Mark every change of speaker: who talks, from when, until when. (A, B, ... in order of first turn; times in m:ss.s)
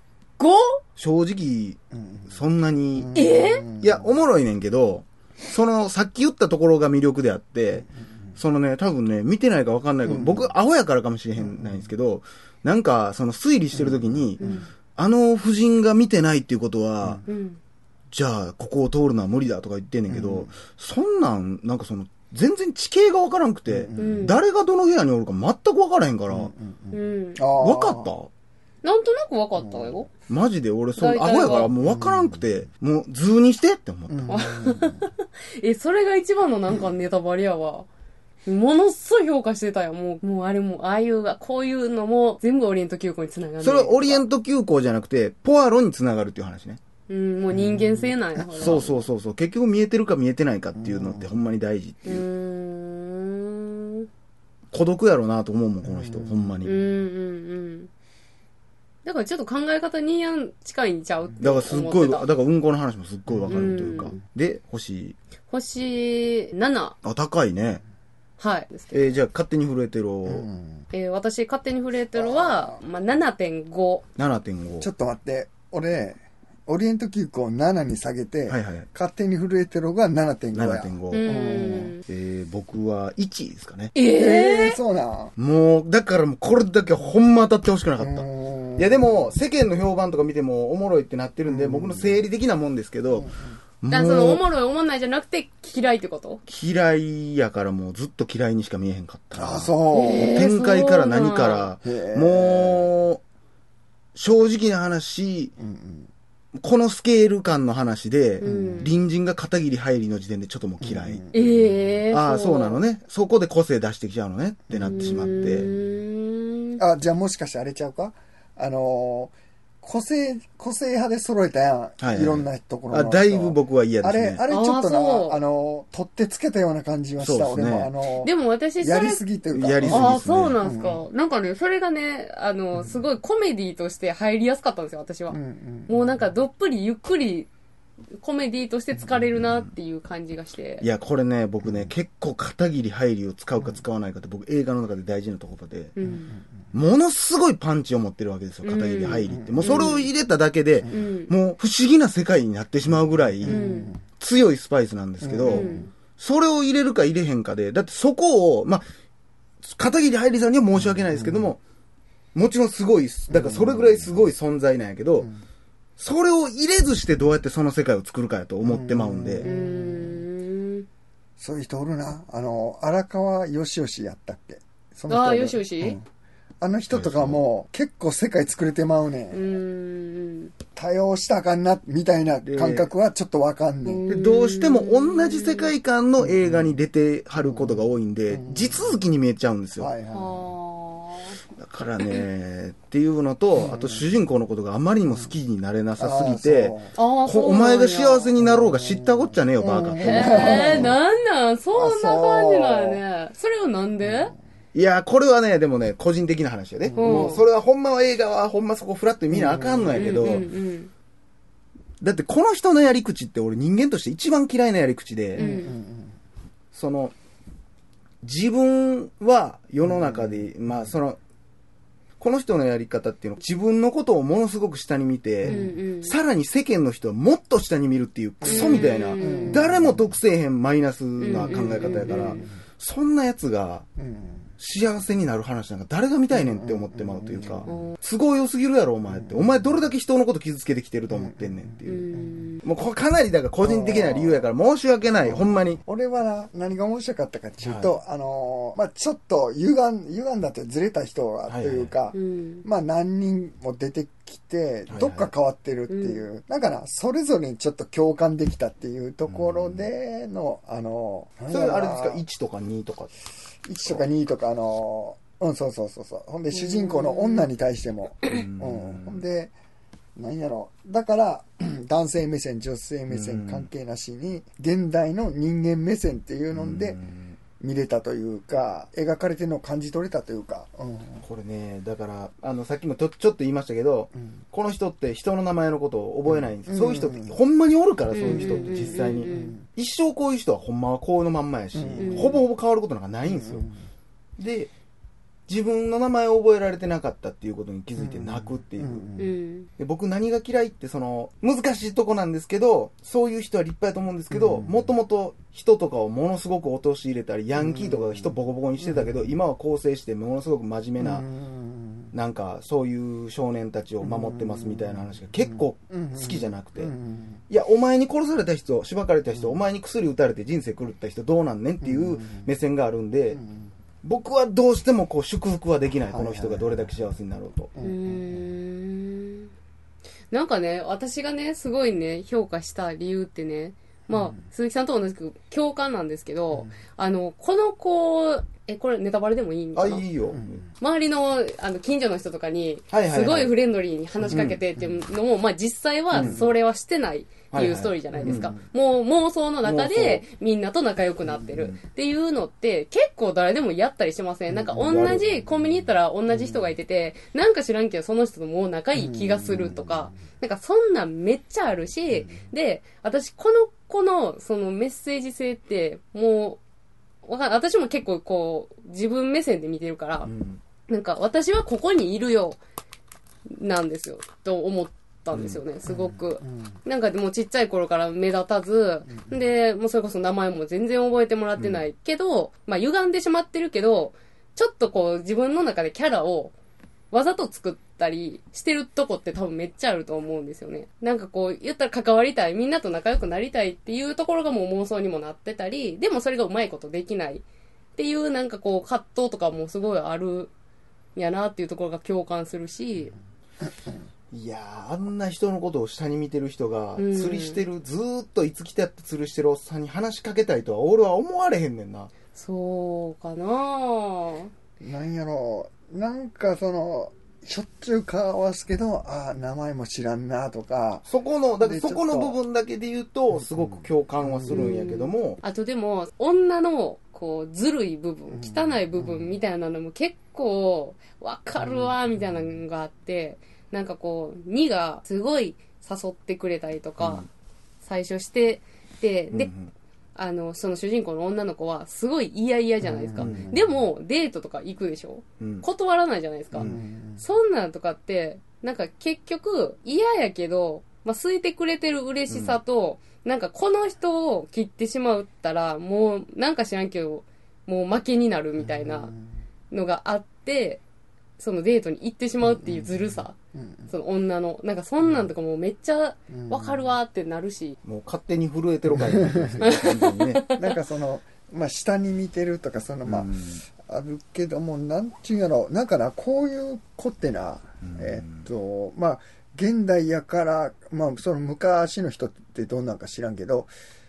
0:00.4-0:00.8 A
0:01.0-0:03.2 B
0:01.9-0:02.4 C
0:02.9-0:04.1 C
0:03.1-0:03.6 A
0:03.8-0:17.2 B
0:10.0-0:10.5 C
0:11.4-0:11.9 C
0:13.7-0:14.6 C
0:14.4-0:14.7 A
0:17.2-0:17.6 A
0:18.1-0:26.5 B
0:20.1-0:20.5 C
0:23.7-0:24.3 C
0:24.0-0:24.4 A
0:26.3-0:28.1 C
0:26.9-0:27.4 A
0:27.6-0:28.3 B
0:28.8-0:30.1 A
0:29.6-0:30.0 C
0:30.3-0:34.4 B
0:31.0-0:31.7 A
0:31.8-0:32.5 C
0:34.1-0:35.0 C
0:34.3-0:37.9 A
0:38.4-0:44.2 A
0:43.6-0:46.8 B
0:47.1-0:49.0 A
0:47.5-0:48.8 C
0:48.5-0:52.2 B
0:50.7-0:51.3 C
0:52.0-0:54.1 A
0:54.7-0:56.7 B
0:55.8-0:56.6 C
0:56.6-0:57.9 A
0:59.0-1:02.3 A
1:01.4-1:05.2 B
1:03.3-1:03.7 C
1:03.5-1:04.2 A
1:05.5-1:07.0 A
1:07.0-1:07.8 B
1:08.4-1:09.1 A
1:08.9-1:10.4 B
1:10.2-1:10.8 C
1:10.9-1:14.0 A
1:12.1-1:12.8 C
1:14.2-1:14.9 B
1:14.8-1:21.9 C
1:18.5-1:18.9 B
1:20.5-1:21.2 B
1:21.1-1:22.0 A
1:22.0-1:23.9 B
1:23.9-1:24.8 A
1:24.0-1:25.3 C
1:25.4-1:33.3 B
1:28.0-1:29.3 C
1:31.4-1:32.2 C
1:33.1-1:33.6 C
1:33.8-1:34.4 B
1:33.9-1:36.4 A
1:36.5-1:43.2 B
1:39.3-1:40.5 C
1:39.9-1:41.7 A
1:41.8-1:42.9 C
1:44.1-1:45.5 B
1:45.6-1:46.1 C
1:46.6-1:51.2 B
1:48.4-1:48.9 A
1:48.4-1:48.9 C
1:50.8-1:51.8 C
1:51.3-1:52.8 A
1:52.1-1:55.7 B
1:54.7-1:55.8 C
1:54.8-1:56.8 A
1:56.8-2:11.0 C
2:02.0-2:04.4 B
2:04.5-2:05.4 A
2:07.2-2:07.9 B
2:08.2-2:09.2 A
2:09.5-2:10.6 B
2:09.8-2:17.5 A
2:15.3-2:16.1 C
2:18.2-2:20.8 A
2:20.8-2:26.0 B
2:25.9-2:26.3 A
2:26.0-2:26.4 C
2:26.7-2:33.6 B
2:28.6-2:30.1 A
2:29.3-2:29.9 C
2:30.9-2:31.3 A
2:33.4-2:34.0 C
2:33.4-2:34.0 A
2:34.2-2:38.8 B
2:35.2-2:35.9 C
2:35.5-2:35.9 A
2:39.6-2:41.6 B
2:40.8-2:41.5 C
2:42.3-2:45.3 B
2:43.3-2:44.3 C
2:46.0-2:49.5 B
2:48.6-2:50.2 C
2:49.4-2:50.8 A
2:51.4-2:56.0 C
2:55.1-2:56.0 A
2:56.6-2:59.5 C
2:56.9-2:57.4 B
2:59.3-3:00.5 A
3:00.8-3:04.0 C
3:02.4-3:02.9 B
3:03.8-3:05.7 A
3:04.1-3:09.9 B
3:06.2-3:06.8 C
3:07.3-3:09.0 C
3:09.8-3:10.4 C
3:10.1-3:11.3 A
3:11.6-3:20.9 B
3:13.5-3:14.1 C
3:16.0-3:16.9 C
3:16.9-3:18.3 A
3:18.4-3:21.0 C
3:20.0-3:24.3 A
3:21.7-3:23.0 C
3:24.0-3:24.3 C
3:24.7-3:30.4 B
3:26.8-3:27.4 C
3:27.0-3:27.4 A
3:29.3-3:30.1 C
3:29.9-3:30.9 A
3:32.0-3:35.4 B
3:35.4-3:35.8 A
3:35.4-3:36.2 C
3:36.7-3:37.1 B
3:38.2-3:41.2 B
3:39.8-3:40.9 C
3:42.2-3:53.8 B
3:45.4-3:45.7 C
3:45.5-3:46.2 A
3:48.4-3:50.1 C
3:48.4-3:49.8 A
3:51.2-3:52.5 A
3:51.3-3:52.5 C
3:54.0-3:54.5 C
3:54.6-4:02.1 B
3:56.3-3:57.9 C
3:57.6-3:58.0 A
3:59.1-3:59.8 C
4:01.1-4:02.5 C
4:01.8-4:02.6 A
4:02.6-4:05.8 B
4:03.6-4:04.5 C
4:05.2-4:22.2 C
4:07.6-4:08.0 B
4:11.4-4:11.9 B
4:12.1-4:12.6 A
4:14.9-4:15.3 B
4:15.9-4:16.2 A
4:19.3-4:19.9 B
4:21.5-4:23.1 B
4:23.6-4:29.5 C
4:26.5-4:27.5 A
4:28.3-4:29.2 B
4:30.2-4:37.0 C
4:33.1-4:33.7 B
4:36.5-4:37.4 B
4:37.6-4:41.2 C
4:41.2-4:53.7 B
4:46.3-4:47.4 C
4:48.1-4:49.6 A
4:48.2-4:49.7 C
4:51.7-4:52.4 C
4:52.0-4:52.4 A
4:53.2-4:53.8 C
4:54.4-4:54.7 B
4:55.5-4:59.1 B
4:58.0-4:59.3 C
4:59.2-4:59.7 A
4:59.8-5:11.2 B
5:04.3-5:04.9 C
5:07.6-5:09.4 C
5:11.0-5:12.1 C
5:12.1-5:16.9 B
5:14.0-5:17.4 C
5:17.5-5:23.4 B
5:19.3-5:19.6 C
5:21.8-5:22.5 C
5:23.3-5:23.7 C
5:24.0-5:27.7 B
5:26.0-5:27.0 C
5:27.7-5:28.5 C
5:27.8-5:29.5 A
5:30.3-5:40.0 A
5:34.1-5:34.4 C
5:39.7-5:40.6 B
5:40.3-5:40.7 C
5:40.8-6:06.6 A
5:42.9-5:43.5 B
5:44.3-5:44.6 B
5:44.3-5:45.0 C
5:46.1-5:46.4 B
5:46.1-5:46.5 C
5:47.5-5:48.5 B
5:48.1-5:48.5 C
5:49.6-5:50.2 B
5:54.5-5:55.3 C
5:54.8-5:55.3 B
5:56.3-5:56.7 C
5:58.9-6:00.2 C
6:02.1-6:02.4 C
6:07.2-6:10.3 A
6:10.2-6:10.6 B
6:10.9-6:12.6 A
6:13.5-6:26.5 A
6:15.3-6:15.6 B
6:15.8-6:16.8 C
6:19.1-6:19.4 C
6:21.6-6:21.8 B
6:27.1-6:37.4 A
6:38.0-6:40.5 A
6:41.1-6:43.1 A
6:44.3-6:52.1 B
6:47.0-6:47.6 A
6:52.3-6:54.5 A
6:54.8-7:01.1 C
7:01.0-7:05.4 B
7:01.6-7:02.4 C
7:03.3-7:04.7 C
7:04.5-7:17.3 A
7:08.3-7:09.4 C
7:11.6-7:12.5 C
7:17.0-7:17.3 B
7:17.8-7:19.5 A
7:19.3-7:19.7 B
7:20.2-7:39.1 A
7:22.8-7:23.7 C
7:23.2-7:23.4 B
7:25.4-7:25.6 B
7:26.5-7:27.2 C
7:32.3-7:32.6 B
7:38.6-7:39.3 C
7:39.7-7:40.8 A
7:41.4-7:43.3 A
7:42.4-7:43.9 C
7:43.9-7:47.8 A
7:45.0-7:45.3 C
7:46.3-7:47.0 C
7:47.8-7:50.4 B
7:48.9-7:49.6 C
7:49.6-7:50.7 A
7:50.5-8:03.7 C
7:53.0-7:53.6 B
7:57.8-7:58.4 B